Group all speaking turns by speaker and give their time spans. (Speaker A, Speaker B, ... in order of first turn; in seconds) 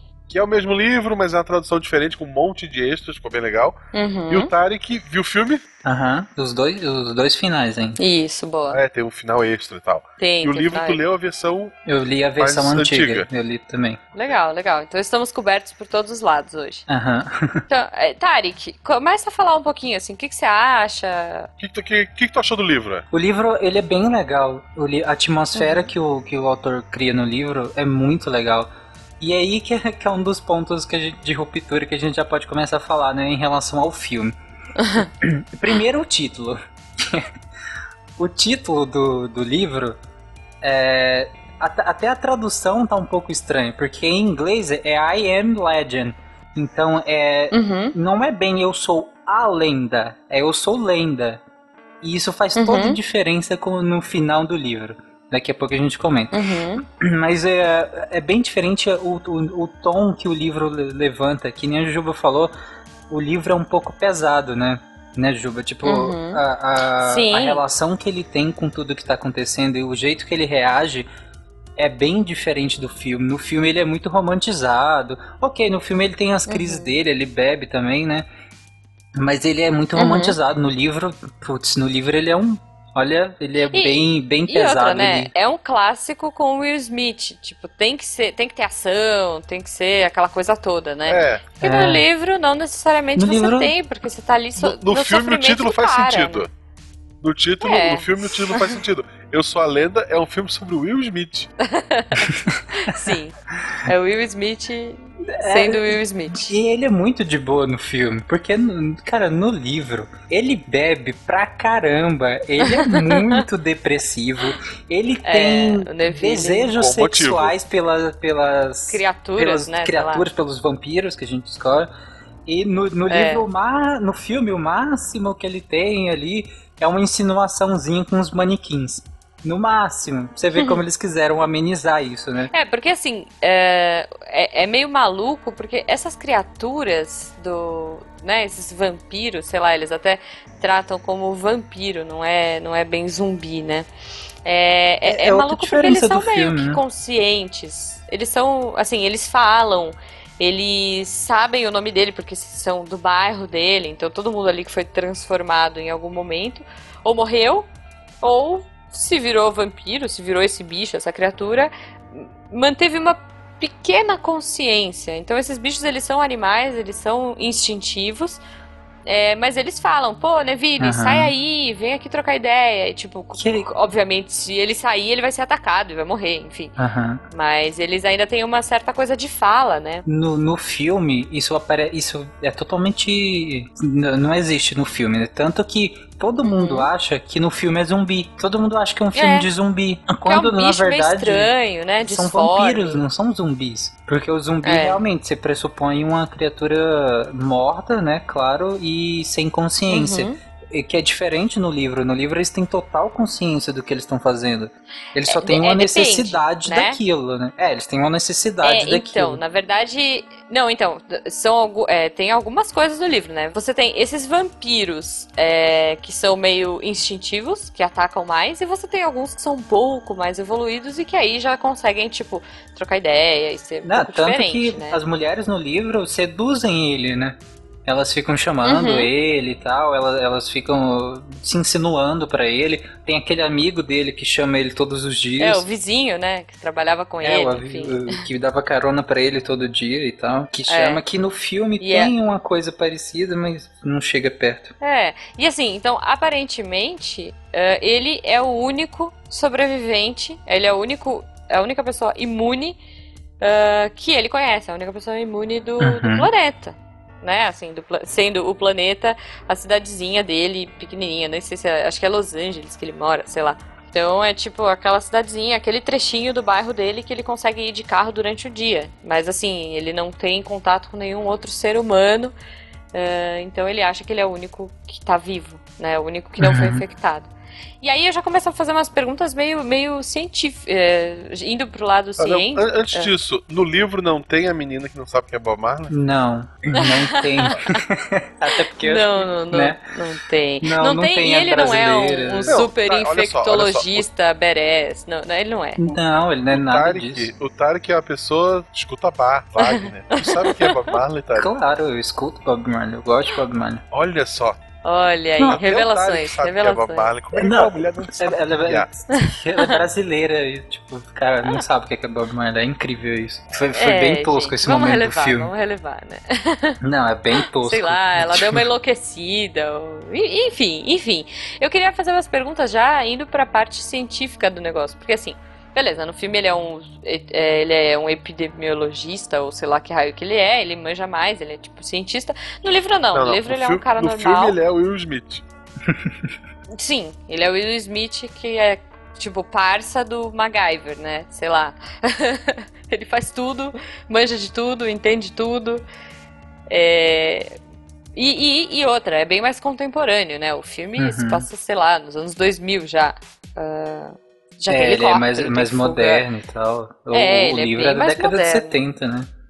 Speaker A: 0.3-5.6, 8.7-11.8, 12.4-13.3, 21.6-23.0, 91.1-91.4, 94.6-96.5, 97.2-101.5, 116.7-117.5, 282.2-285.9, 292.5-294.1, 296.5-301.5, 303.9-304.6, 305.5-308.9, 333.1-335.4
Speaker B: 3.9-4.5, 8.0-8.8, 10.2-11.0, 14.1-16.9, 17.7-21.5, 25.6-25.9, 34.8-35.1, 47.5-47.9, 52.6-53.0, 56.3-56.8, 65.8-66.4, 67.0-67.6, 76.5-77.0, 80.0-80.3, 83.7-96.5, 97.6-98.8, 101.6-106.5, 112.6-113.4, 115.2-116.7, 118.9-120.2, 123.1-123.4, 132.5-143.9, 144.4-157.7, 158.2-168.4, 169.0-176.8, 177.3-180.0, 186.4-186.9, 189.1-189.5, 190.2-193.0, 194.6-195.0, 199.9-200.4, 205.3-207.0, 208.6-225.0, 228.6-229.1, 235.4-238.2, 240.7-241.0, 241.8-242.1, 244.8-252.8, 253.4-272.3, 272.9-277.3, 277.8-283.1, 286.8-287.8, 288.8-295.8, 299.6-300.9, 304.8-307.1, 309.1-309.8, 313.7-316.8, 317.4-334.6, 336.7-345.8, 346.7-347.6, 348.1-356.2, 357.1-358.8
Speaker C: 5.8-8.0, 11.9-14.0, 16.9-17.6, 23.1-34.3, 35.0-37.3, 38.2-40.0, 40.6-51.4, 52.0-62.5, 63.1-71.1, 71.8-78.2, 79.2-85.3, 91.6-92.0, 93.2-93.7, 102.3-103.1, 105.3-121.9, 122.5-132.5, 145.1-146.8, 170.8-171.3, 173.3-173.7, 176.8-177.2, 180.1-191.5, 192.0-209.4, 223.8-235.6, 237.2-244.7, 255.8-256.3, 276.4-276.8, 285.9-289.9, 290.6-292.6, 295.8-297.3, 301.3-303.8, 307.3-315.5, 316.8-318.6, 335.9-336.3, 351.0-351.5, 354.7-359.3